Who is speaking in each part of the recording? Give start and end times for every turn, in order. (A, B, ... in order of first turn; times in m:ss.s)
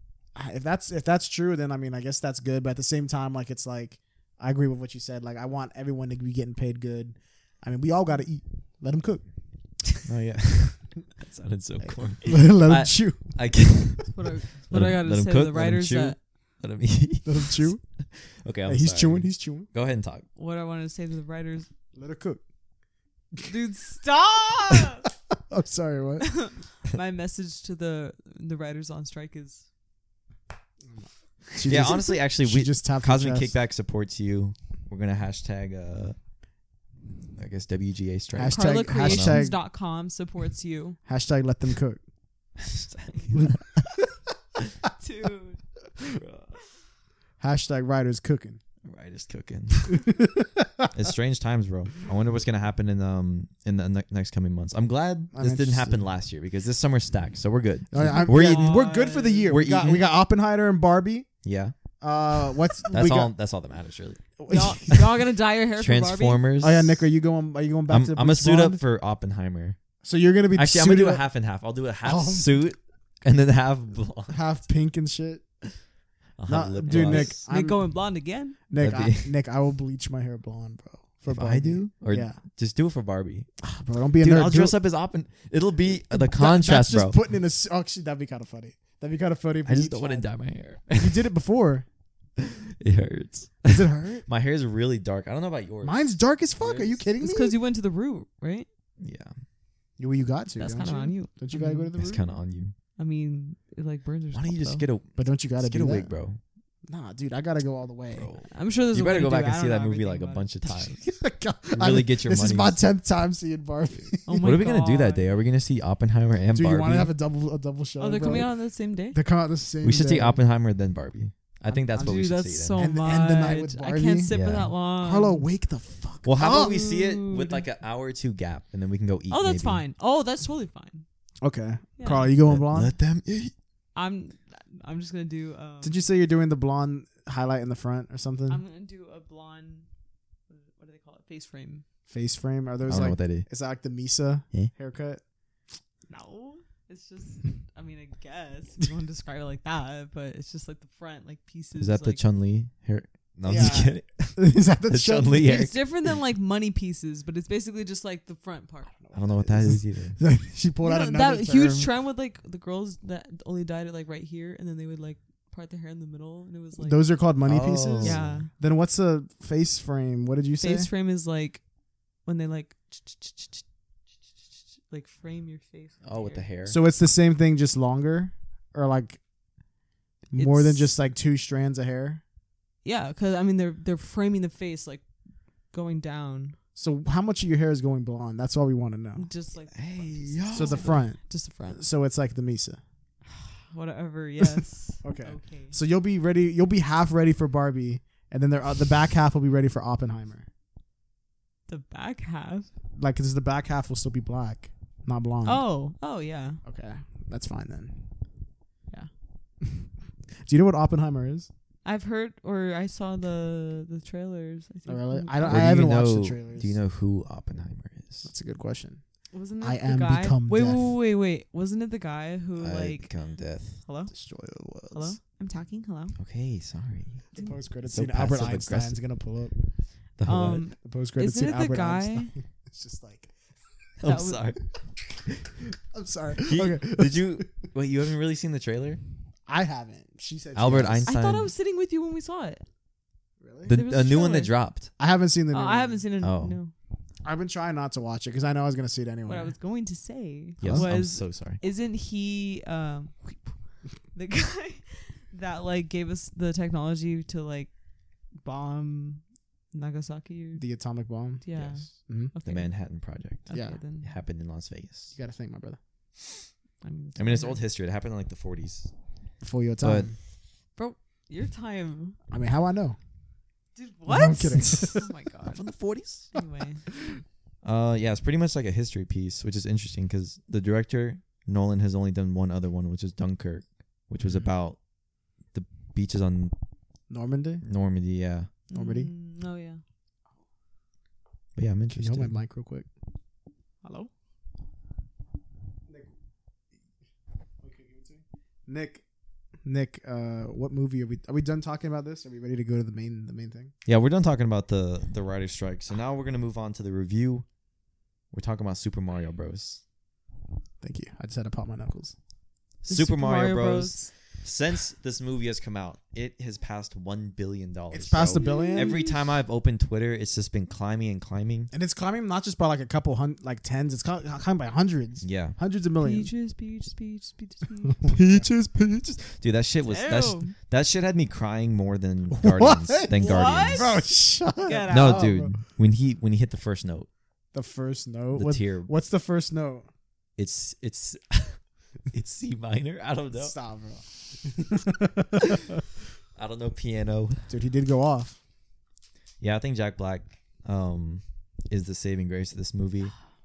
0:00.3-0:09.2 A
0:10.0-0:20.2 B
0:11.8-0:13.3 A
0:14.1-0:16.2 C
0:17.2-0:17.8 A
0:18.7-0:19.7 A
0:20.4-0:21.7 C
0:21.9-0:22.4 A
0:23.4-0:25.1 C
0:25.5-0:26.3 A
0:26.2-0:29.6 C
0:30.9-0:33.5 A
0:31.6-0:36.2 B
0:37.4-0:39.5 B
0:38.3-0:39.6 A
0:38.5-0:41.0 C
0:41.0-0:42.0 A
0:42.6-0:43.6 B
0:44.9-0:45.6 C
0:46.0-0:46.5 B
0:47.4-0:48.6 A
0:48.8-0:50.0 B
0:49.9-0:50.9 A
0:50.9-0:58.9 B
0:55.3-0:56.0 A
0:57.9-1:01.3 A
0:58.0-0:59.5 C
0:59.5-1:00.1 B
1:01.4-1:01.8 B
1:02.0-1:03.3 A
1:02.9-1:04.2 B
1:04.4-1:05.1 A
1:04.5-1:06.4 C
1:05.8-1:07.0 B
1:06.6-1:08.8 A
1:07.9-1:09.8 B
1:10.0-1:11.2 A
1:10.5-1:14.4 B
1:12.0-1:12.6 A
1:14.3-1:15.4 A
1:16.4-1:17.4 B
1:16.5-1:17.8 A
1:16.9-1:18.6 C
1:18.7-1:22.4 A
1:18.8-1:19.3 B
1:21.3-1:23.5 B
1:23.6-1:24.8 A
1:24.2-1:27.2 B
1:26.1-1:30.3 A
1:29.6-1:31.2 B
1:31.0-1:31.8 A
1:32.4-1:37.0 B
1:33.7-1:34.2 A
1:35.8-1:37.6 A
1:37.2-1:38.7 C
1:39.0-1:39.3 B
1:40.0-1:42.3 A
1:40.6-1:41.9 C
1:42.0-1:42.7 B
1:43.0-1:44.8 C
1:44.3-1:46.4 B
1:45.2-1:46.1 A
1:46.9-1:48.3 A
1:48.1-1:51.0 B
1:48.5-1:50.9 C
1:51.0-1:54.4 A
1:51.7-1:52.8 B
1:54.3-1:55.2 C
1:54.4-1:57.1 B
1:56.5-1:58.5 A
1:58.0-1:59.2 C
1:59.1-2:00.4 A
1:59.8-2:02.8 B
2:01.9-2:05.4 C
2:02.8-2:04.3 A
2:04.3-2:04.7 B
2:05.0-2:06.8 A
2:06.2-2:09.8 B
2:06.4-2:07.6 C
2:09.3-2:11.0 C
2:11.4-2:12.9 A
2:12.0-2:12.3 C
2:12.4-2:13.5 B
2:13.9-2:16.0 C
2:15.8-2:18.6 A
2:18.5-2:19.9 C
2:20.5-2:21.8 C
2:22.1-2:25.2 A
2:22.9-2:23.4 B
2:26.1-2:32.2 C
2:31.8-2:35.8 B
2:33.4-2:35.5 A
2:35.4-2:39.0 C
2:39.0-2:41.9 A
2:39.1-2:40.2 B
2:40.8-2:47.1 C
2:46.8-2:50.9 A
2:47.4-2:48.5 B
2:48.0-2:48.5 C
2:50.6-2:51.6 C
2:52.2-2:53.6 C
2:54.9-2:56.4 C
2:56.0-2:56.8 B
2:56.7-2:59.2 A
3:00.3-3:02.2 A
3:00.4-3:00.9 C
3:02.8-3:05.0 C
3:05.7-3:06.6 C
3:06.8-3:09.2 A
3:09.2-3:11.8 C
3:09.7-3:10.9 B
3:10.5-3:11.2 A
3:11.7-3:12.8 A
3:13.3-3:15.7 C
3:15.0-3:20.5 A
3:21.7-3:22.7 C
3:23.0-3:25.6 A
3:25.4-3:26.6 C
3:26.6-3:28.0 A
3:30.4-3:31.5 A
3:31.8-3:35.7 C
3:34.9-3:36.7 A
3:35.4-3:38.3 B
3:38.2-3:39.0 A
3:39.3-3:43.1 C
3:39.6-3:40.9 A
3:42.6-3:43.8 B
3:43.8-3:44.1 C
3:44.1-3:45.2 A
3:44.9-3:46.2 C
3:46.2-3:47.2 B
3:47.3-3:49.6 A
3:47.9-3:49.0 B
3:50.2-3:50.6 B
3:50.2-3:52.3 C
3:50.8-3:53.3 A
3:54.0-3:54.6 B
3:54.0-3:54.4 C
3:55.9-3:57.5 A
3:56.4-3:59.0 B
3:59.5-4:01.1 A
4:00.5-4:01.5 B
4:01.1-4:02.6 C
4:03.4-4:03.7 A
4:03.6-4:04.5 C
4:03.7-4:04.9 B
4:05.0-4:06.0 A
4:05.5-4:06.7 C
4:06.2-4:06.6 B
4:07.2-4:09.5 A
4:09.3-4:13.6 C
4:10.6-4:10.9 A
4:10.6-4:11.6 B
4:14.1-4:17.7 C
4:18.4-4:20.6 C
4:20.6-4:21.4 A
4:21.4-4:22.7 C
4:21.5-4:21.9 B
4:22.1-4:22.3 A
4:22.4-4:23.5 B
4:23.5-4:24.1 C
4:23.5-4:23.8 A
4:24.0-4:25.1 B
4:25.1-4:25.8 A
4:26.8-4:27.6 C
4:27.2-4:28.9 B
4:29.4-4:30.1 A
4:29.8-4:30.1 B
4:30.8-4:32.2 C
4:32.3-4:33.0 A
4:33.7-4:35.6 C
4:34.1-4:35.0 A
4:35.5-4:36.3 B
4:36.3-4:36.8 C
4:37.6-4:44.8 B
4:45.5-4:46.5 B
4:47.1-4:47.6 A
4:47.6-4:48.5 B
4:48.7-4:49.8 C
4:48.7-4:49.1 A
4:51.6-4:52.3 B
4:51.9-4:52.8 A
4:53.8-4:54.1 C
4:57.6-4:59.0 A
4:59.6-5:03.7 A
5:03.8-5:07.4 B
5:08.3-5:09.8 B
5:10.8-5:12.1 A
5:12.8-5:21.7 B
5:12.9-5:14.1 C
5:17.9-5:19.0 A
5:18.2-5:19.3 C
5:21.7-5:26.3 A
5:25.2-5:25.6 B
5:26.0-5:28.0 C
5:27.9-5:28.5 A
5:28.1-5:34.0 B
5:29.8-5:30.5 C
5:32.3-5:35.6 A
5:33.1-5:34.0 C
5:34.6-5:35.3 C
5:34.9-5:37.1 B
5:37.5-5:39.9 A
5:38.3-5:38.9 B
5:40.4-5:41.6 B
5:42.1-5:43.5 B
5:43.4-5:45.7 A
5:46.4-5:47.4 B
5:47.5-5:48.4 A
5:49.4-5:53.1 B